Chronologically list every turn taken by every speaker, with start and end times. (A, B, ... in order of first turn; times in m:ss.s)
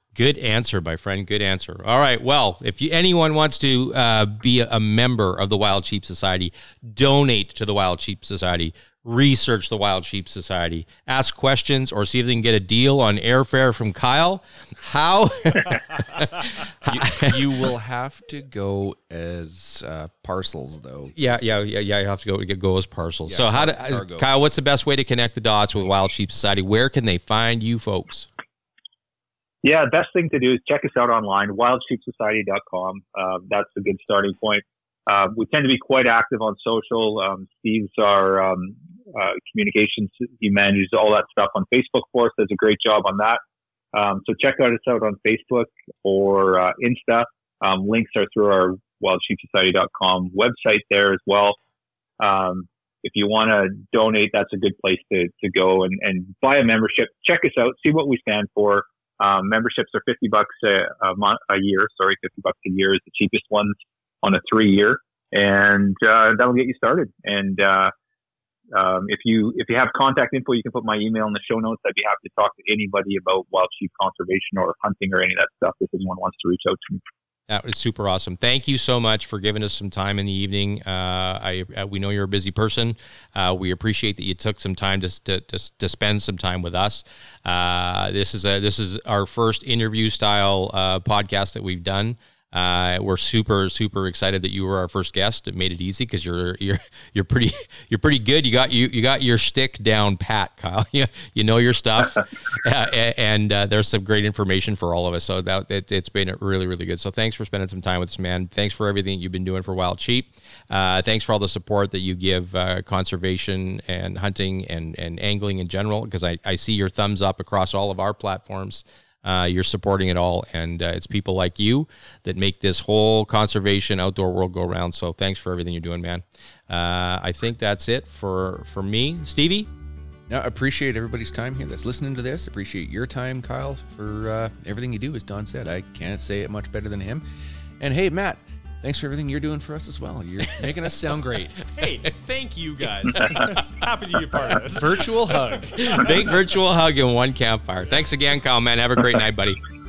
0:00.2-0:17.3 A
0:16.8-0:21.2 B
0:21.2-0:28.3 A
0:23.3-0:24.3 B
0:29.6-0:43.4 C
0:43.9-0:51.6 C
0:52.2-1:07.9 C
1:08.7-1:17.0 C
1:17.5-2:09.7 A
2:10.3-2:17.2 B
2:17.8-2:21.6 B
2:21.7-2:26.1 D
2:24.6-2:25.6 B
2:25.6-2:29.6 A